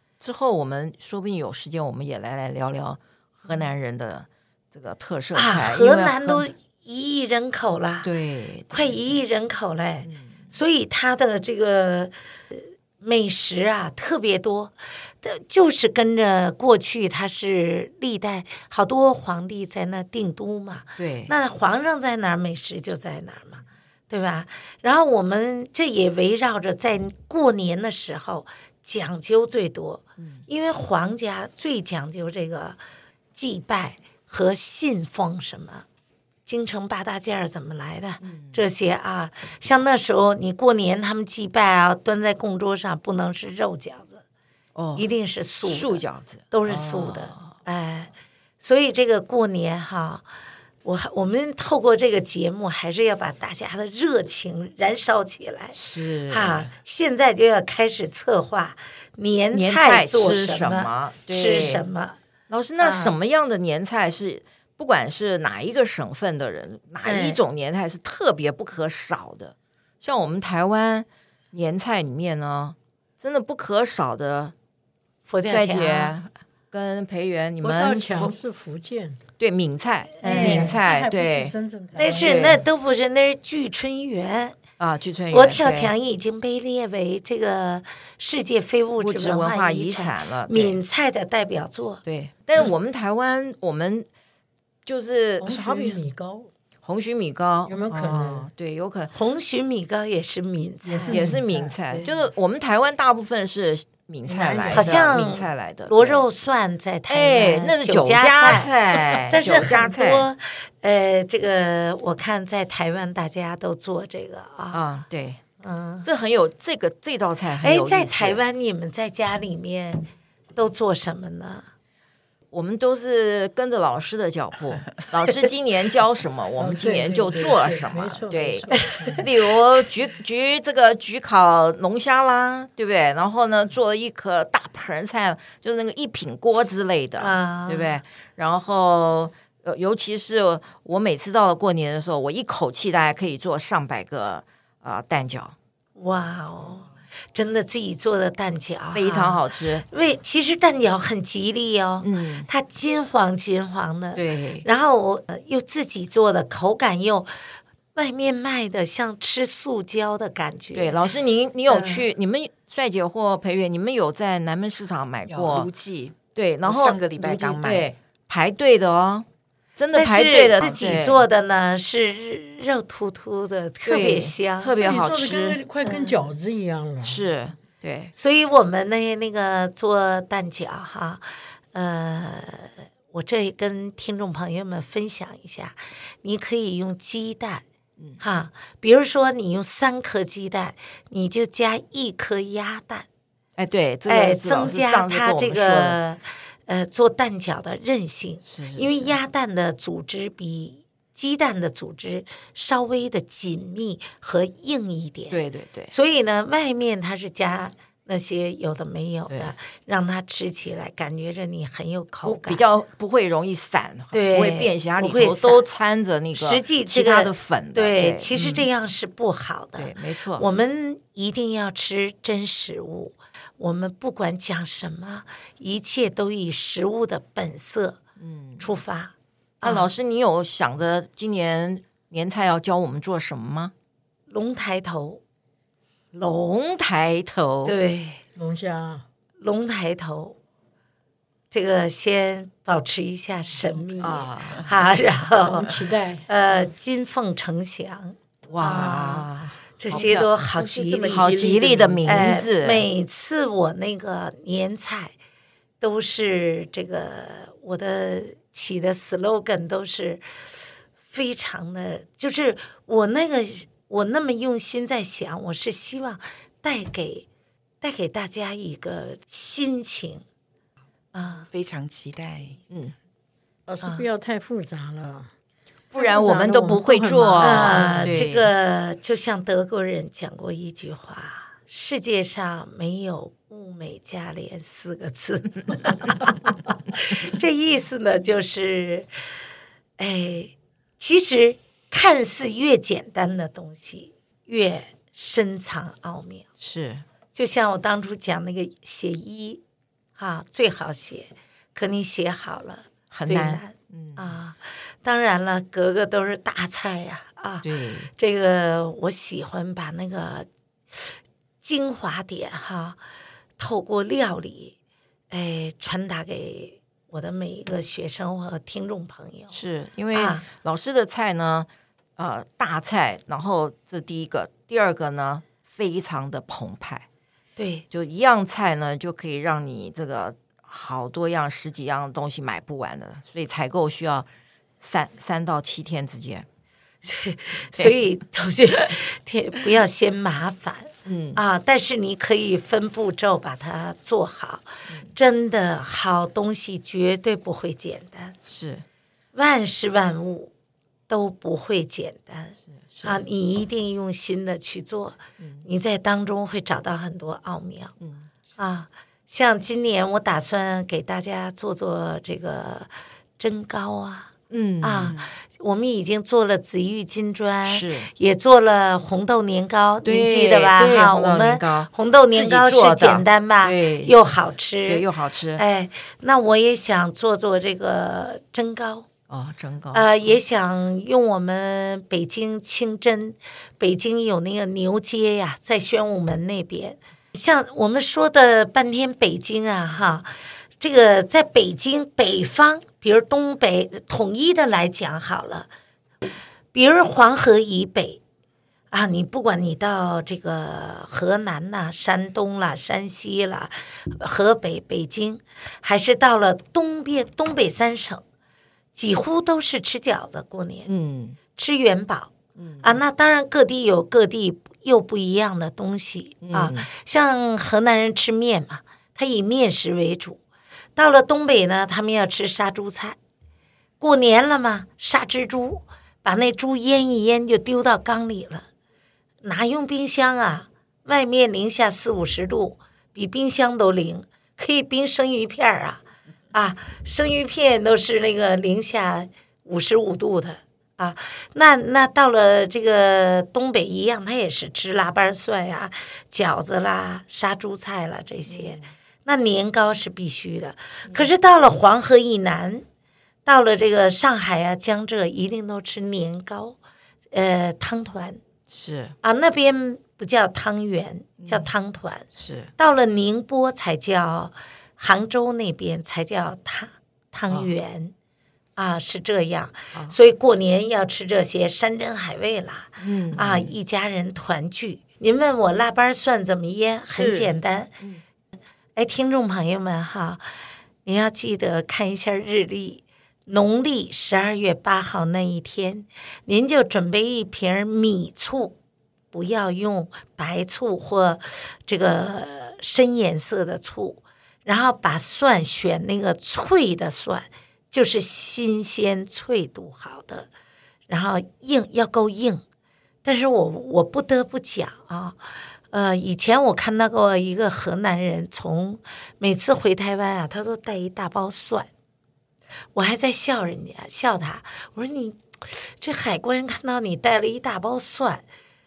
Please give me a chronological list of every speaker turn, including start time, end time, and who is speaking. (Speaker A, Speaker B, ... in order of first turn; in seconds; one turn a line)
Speaker A: 0.2-6.5
Speaker B: 5.3-8.1
Speaker A: 8.0-9.0
Speaker B: 8.7-32.8
Speaker A: 10.0-10.5
Speaker A: 21.0-21.3
Speaker A: 30.2-30.4
Speaker B: 33.3-35.9
Speaker B: 36.5-44.2
Speaker A: 38.2-38.6
Speaker A: 44.7-45.1
Speaker B: 45.0-50.2
Speaker A: 45.6-47.5
Speaker B: 50.8-55.8
Speaker A: 55.7-56.7
Speaker B: 56.3-62.2
Speaker A: 59.5-61.8
Speaker A: 62.5-74.5
Speaker B: 62.8-63.1
Speaker B: 67.0-67.4
Speaker B: 75.2-76.2
Speaker A: 75.5-78.3
Speaker C: 77.6-79.2
Speaker A: 79.4-82.6
Speaker B: 80.2-80.8
Speaker C: 80.2-82.5
Speaker B: 82.0-84.6
Speaker A: 84.8-85.9
Speaker B: 85.3-92.0
Speaker A: 89.0-90.8
Speaker A: 92.0-94.1
Speaker A: 94.8-96.0
Speaker C: 95.4-96.5
Speaker A: 96.8-99.1
Speaker C: 97.7-98.5
Speaker B: 99.1-101.3
Speaker C: 100.8-102.1
Speaker A: 101.1-106.2
Speaker C: 104.3-104.9
Speaker B: 104.7-114.8
Speaker A: 107.1-110.2
Speaker A: 114.7-115.4
Speaker B: 115.6-116.1
Speaker A: 116.0-118.4
Speaker B: 117.6-121.7
Speaker A: 122.5-145.5
Speaker C: 126.6-129.3
Speaker B: 128.7-129.2
Speaker B: 137.2-138.0
Speaker B: 145.9-157.3
Speaker A: 148.9-149.8
Speaker A: 152.0-152.5
Speaker A: 154.2-154.6
Speaker B: 157.9-161.0
Speaker A: 160.7-165.7
Speaker B: 161.7-162.1
Speaker D: 165.3-167.9
Speaker A: 166.3-169.2
Speaker A: 169.8-171.2
Speaker B: 169.9-174.9
Speaker A: 173.8-175.6
Speaker C: 174.8-177.3
Speaker B: 175.8-176.1
Speaker A: 177.0-178.1
Speaker B: 178.1-187.6
Speaker B: 188.2-193.1
Speaker A: 193.6-196.0
Speaker B: 194.1-205.4
Speaker A: 198.4-199.2
Speaker A: 205.3-205.9
Speaker B: 205.9-212.6
Speaker A: 212.2-218.7
Speaker B: 214.1-215.6
Speaker B: 216.3-228.0
Speaker A: 219.8-220.4
Speaker A: 228.2-228.6
Speaker B: 228.6-229.9
Speaker A: 229.6-233.7
Speaker B: 234.3-235.2
Speaker A: 236.1-237.8
Speaker B: 237.6-238.2
Speaker C: 238.3-239.0
Speaker B: 239.4-240.3
Speaker B: 241.5-251.4
Speaker A: 244.0-244.7
Speaker C: 245.3-246.3
Speaker A: 248.5-250.1
Speaker D: 249.9-252.4
Speaker A: 251.1-252.8
Speaker B: 252.0-255.1
Speaker B: 255.8-260.2
Speaker B: 261.1-267.2
Speaker B: 267.8-270.2
Speaker B: 271.1-271.5
Speaker D: 271.4-272.6
Speaker A: 272.7-272.9
Speaker C: 273.7-275.3
Speaker B: 273.8-274.1
Speaker A: 275.9-278.4
Speaker C: 275.9-278.2
Speaker B: 277.4-289.1
Speaker B: 290.0-296.5
Speaker A: 296.6-297.0
Speaker B: 297.3-299.6
Speaker B: 300.2-313.0
Speaker A: 303.1-304.4
Speaker A: 307.6-308.1
Speaker B: 313.6-314.7
Speaker B: 315.3-319.6
Speaker A: 319.5-327.1
Speaker B: 320.1-320.4
Speaker B: 327.6-327.8
Speaker A: 327.9-334.2
Speaker A: 334.8-336.4
Speaker B: 337.0-348.4
Speaker A: 341.1-341.4
Speaker A: 348.4-348.8
Speaker B: 349.3-350.5
Speaker B: 351.1-357.9
Speaker A: 352.9-353.2
Speaker A: 355.4-355.6
Speaker A: 358.0-358.3
Speaker B: 358.6-379.1
Speaker A: 364.5-365.2
Speaker A: 367.6-368.1
Speaker A: 370.0-374.1
Speaker A: 374.9-375.6
Speaker A: 379.3-380.3
Speaker B: 379.9-395.7
Speaker B: 396.7-398.2
Speaker B: 398.9-408.2
Speaker B: 408.9-410.9
Speaker A: 410.9-411.4
Speaker B: 411.6-420.4
Speaker A: 412.6-413.0
Speaker A: 416.4-416.9
Speaker B: 420.9-423.2
Speaker B: 424.0-428.6
Speaker B: 429.4-452.8
Speaker A: 448.5-448.9
Speaker B: 453.4-456.8
Speaker B: 457.3-458.4
Speaker A: 458.7-459.1
Speaker B: 459.2-462.3
Speaker A: 461.4-461.7
Speaker A: 462.3-462.7
Speaker B: 462.8-468.1
Speaker B: 468.8-477.9
Speaker A: 473.0-473.7
Speaker A: 477.1-478.2
Speaker B: 478.9-480.4
Speaker B: 481.0-488.8
Speaker B: 489.3-500.5
Speaker B: 501.1-502.6
Speaker B: 503.2-505.4
Speaker B: 505.9-511.9
Speaker B: 512.9-518.4